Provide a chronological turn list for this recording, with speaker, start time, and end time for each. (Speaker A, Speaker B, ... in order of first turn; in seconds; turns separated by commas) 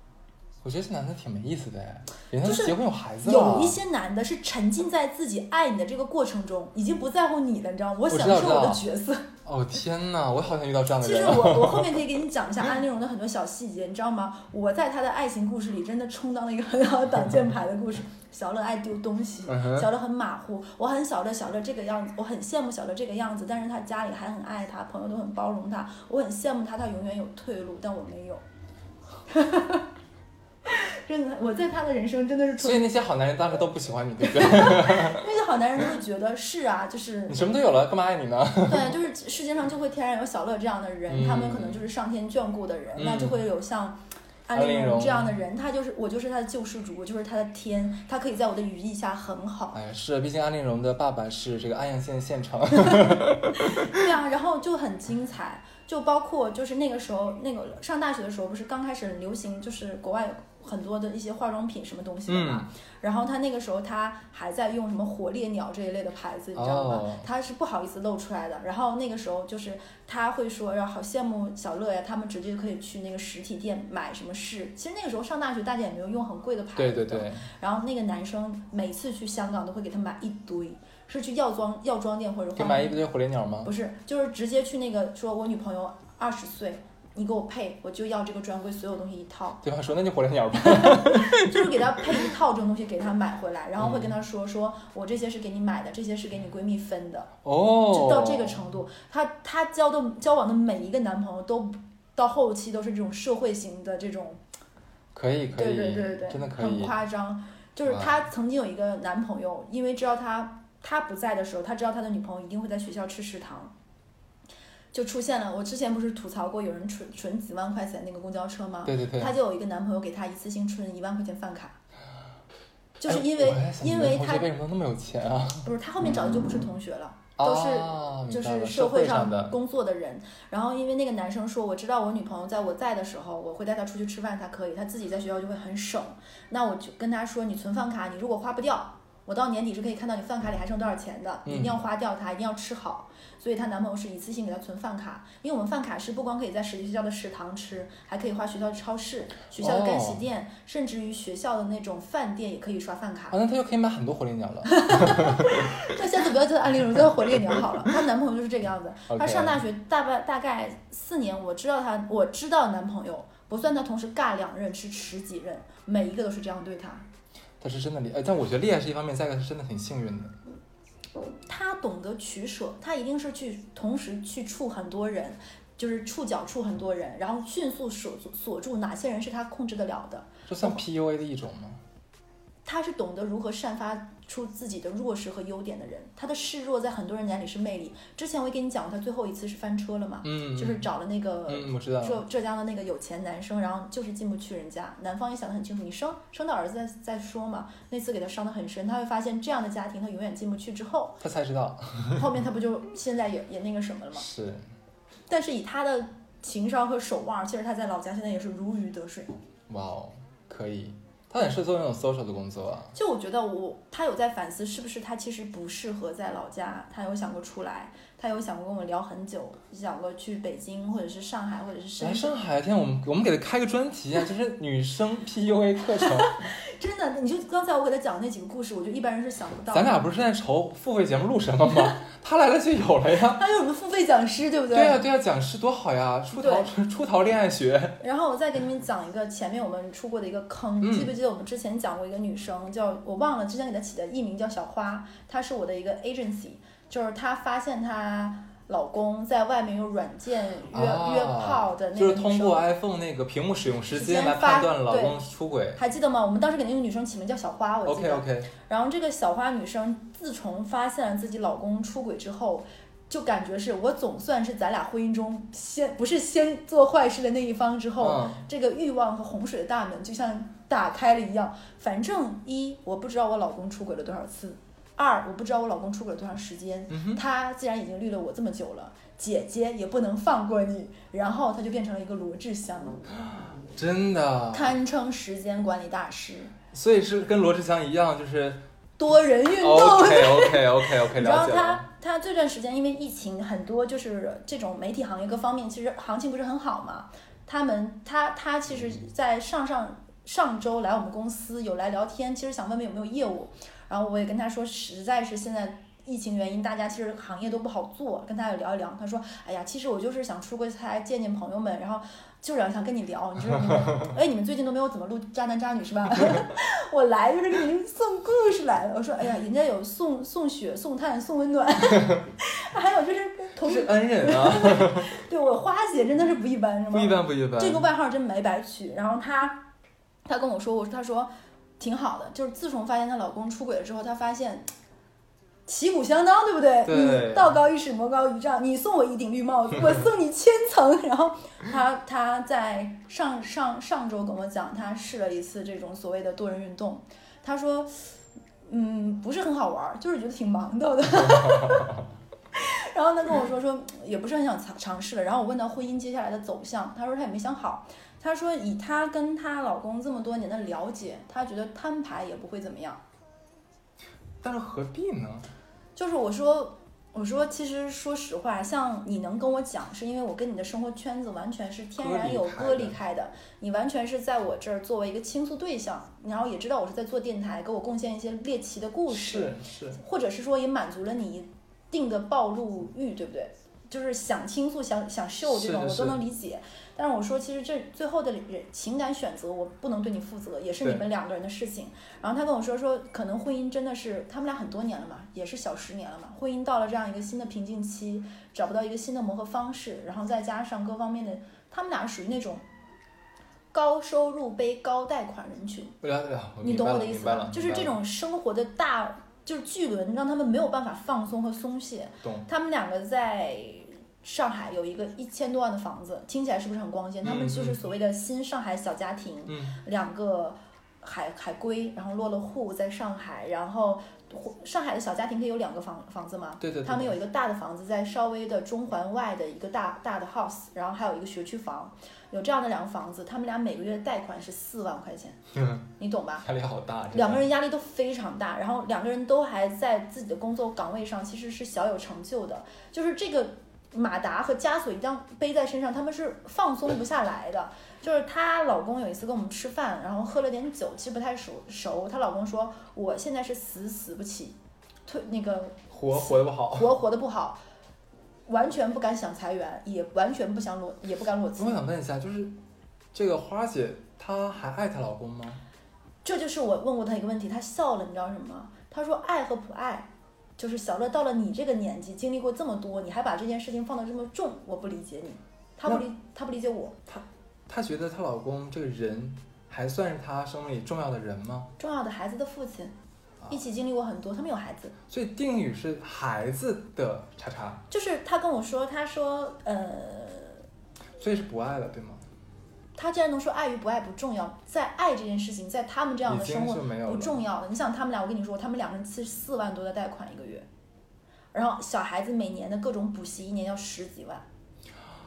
Speaker A: 0.6-3.8, Speaker B: 2.4-9.3, Speaker A: 8.1-8.8, Speaker A: 9.4-12.1, Speaker B: 11.0-28.4, Speaker A: 19.5-19.9, Speaker B: 29.3-29.9, Speaker B: 30.6-32.9, Speaker A: 32.6-35.3, Speaker B: 34.2-37.5, Speaker A: 37.3-39.0, Speaker B: 38.6-49.8, Speaker A: 41.1-41.8, Speaker A: 43.0-43.4, Speaker A: 44.5-45.3, Speaker A: 49.7-54.0, Speaker B: 52.8-83.0, Speaker A: 62.3-62.7, Speaker A: 66.5-67.2, Speaker A: 76.8-77.5, Speaker A: 82.5-83.7, Speaker B: 83.6-89.6, Speaker A: 89.6-91.7, Speaker B: 90.6-97.3, Speaker A: 93.8-94.1, Speaker A: 97.4-98.6, Speaker B: 97.9-104.4, Speaker A: 105.1-106.9, Speaker B: 105.5-113.7, Speaker A: 107.8-108.2, Speaker B: 114.9-121.8, Speaker A: 118.8-119.3, Speaker B: 123.0-124.5, Speaker A: 123.0-125.7, Speaker B: 125.6-153.4, Speaker A: 127.4-129.6, Speaker A: 141.4-141.8, Speaker A: 149.6-150.2, Speaker A: 153.3-155.7, Speaker B: 154.7-167.1, Speaker A: 159.1-159.6, Speaker A: 167.6-170.3, Speaker B: 171.5-180.8, Speaker A: 180.5-181.8, Speaker B: 182.6-201.2, Speaker A: 190.2-190.8, Speaker A: 191.5-192.2, Speaker A: 201.2-202.3, Speaker B: 202.1-204.3, Speaker A: 204.2-204.6, Speaker B: 205.3-209.3, Speaker A: 209.7-212.9, Speaker B: 212.9-222.3, Speaker A: 222.0-226.4, Speaker B: 226.0-230.0, Speaker A: 229.7-233.4, Speaker B: 233.3-235.0, Speaker A: 234.7-238.0, Speaker B: 236.3-236.7, Speaker B: 238.0-252.6, Speaker A: 240.8-241.1, Speaker A: 250.7-255.8, Speaker B: 253.9-255.2, Speaker B: 255.8-283.0, Speaker A: 257.8-258.5, Speaker A: 268.0-268.4, Speaker A: 276.9-277.2, Speaker A: 283.2-284.7, Speaker B: 284.5-286.5, Speaker A: 286.7-288.6, Speaker B: 289.0-329.7, Speaker A: 289.6-291.8, Speaker A: 313.5-314.1, Speaker A: 323.6-325.1, Speaker A: 326.9-327.9, Speaker B: 330.2-334.7, Speaker B: 335.6-352.0, Speaker A: 336.9-337.5, Speaker B: 352.5-363.0, Speaker A: 364.4-365.5, Speaker B: 365.9-402.6, Speaker A: 372.0-372.9, Speaker A: 379.1-380.0, Speaker A: 385.4-386.2, Speaker B: 403.7-405.9, Speaker A: 406.0-407.9, Speaker B: 406.6-435.4, Speaker A: 417.2-417.8, Speaker A: 419.5-419.8, Speaker A: 426.6-427.1, Speaker A: 435.5-435.9, Speaker B: 436.0-436.5, Speaker A: 436.4-437.4, Speaker B: 437.1-457.6, Speaker A: 455.9-456.9, Speaker B: 458.5-461.8, Speaker A: 461.6-462.5, Speaker A: 463.1-465.6, Speaker B: 466.2-477.0, Speaker A: 477.1-481.7, Speaker B: 481.8-482.9, Speaker B: 483.5-484.9, Speaker A: 485.1-487.8, Speaker B: 487.9-490.6, Speaker A: 491.2-492.2, Speaker B: 492.9-500.7, Speaker A: 496.2-497.4, Speaker B: 501.5-504.4